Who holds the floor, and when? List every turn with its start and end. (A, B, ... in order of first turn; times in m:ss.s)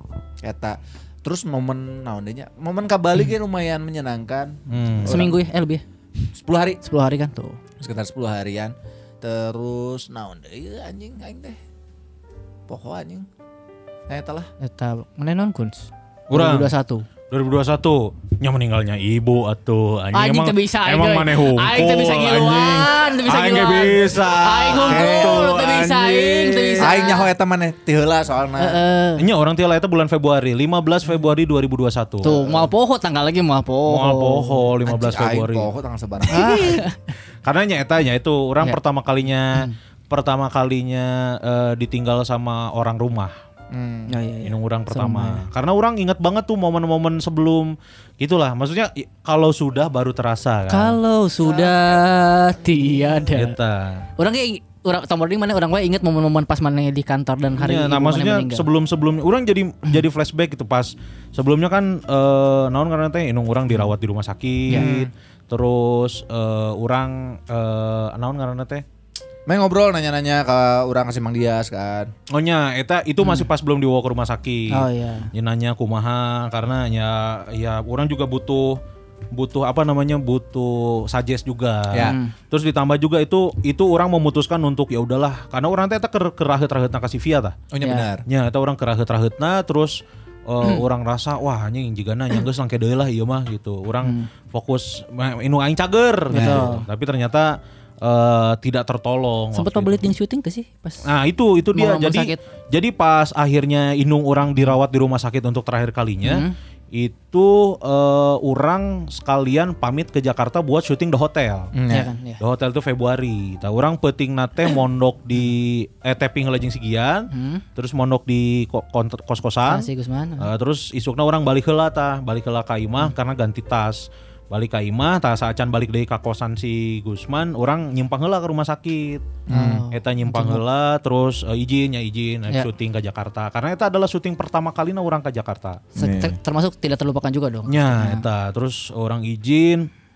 0:00.4-0:05.4 A
0:04.7-0:05.2 B
0:05.1-0:05.8 C
0:06.3-0:06.8 A
0:06.8-0:07.6 C
0:07.8-0:11.6 A
0:12.7-0:13.3 A
0:14.1-0:14.5 A
0:14.6-0:17.0 C
0:16.3-0:16.7 B
0:17.3-0:27.0 B
0:20.1-0:27.3 C
0:24.8-0:25.7 A
0:26.8-0:28.8 A
0:28.6-0:29.2 C
0:29.2-0:32.4 B
0:32.2-0:34.7 C
0:33.9-0:35.7 B
0:34.8-0:36.8 A
0:36.3-0:36.9 C
0:36.5-0:36.8 B
0:37.4-0:43.3 B
0:43.7-0:44.1 A
0:44.1-0:45.4 C
0:44.4-0:51.0 B
0:50.7-0:53.6 C
0:51.4-0:51.8 A
0:53.4-0:54.1 B
0:54.2-0:58.6 C
0:57.6-1:08.8 B
1:04.7-1:05.1 A
1:09.5-1:12.1 A
1:12.3-1:18.8 B
1:13.2-1:13.5 C
1:14.7-1:15.3 C
1:19.3-1:27.6 B
1:21.9-1:22.2 A
1:22.0-1:22.3 C
1:27.7-1:28.2 A
1:27.8-1:28.1 C
1:28.3-1:40.1 B
1:34.0-1:34.3 C
1:36.3-1:36.8 C
1:36.3-1:36.7 A
1:39.5-1:41.0 C
1:41.0-1:51.7 B
1:41.8-1:42.4 C
1:46.2-1:46.5 C
1:51.8-1:52.1 A
1:51.9-1:52.4 C
1:52.4-2:09.2 B
1:57.3-1:57.6 C
1:59.7-2:00.5 C
2:09.5-2:09.8 A
2:09.5-2:10.6 C
2:09.9-2:15.9 B
2:16.0-2:18.2 C
2:16.0-2:16.4 A
2:17.7-2:19.9 B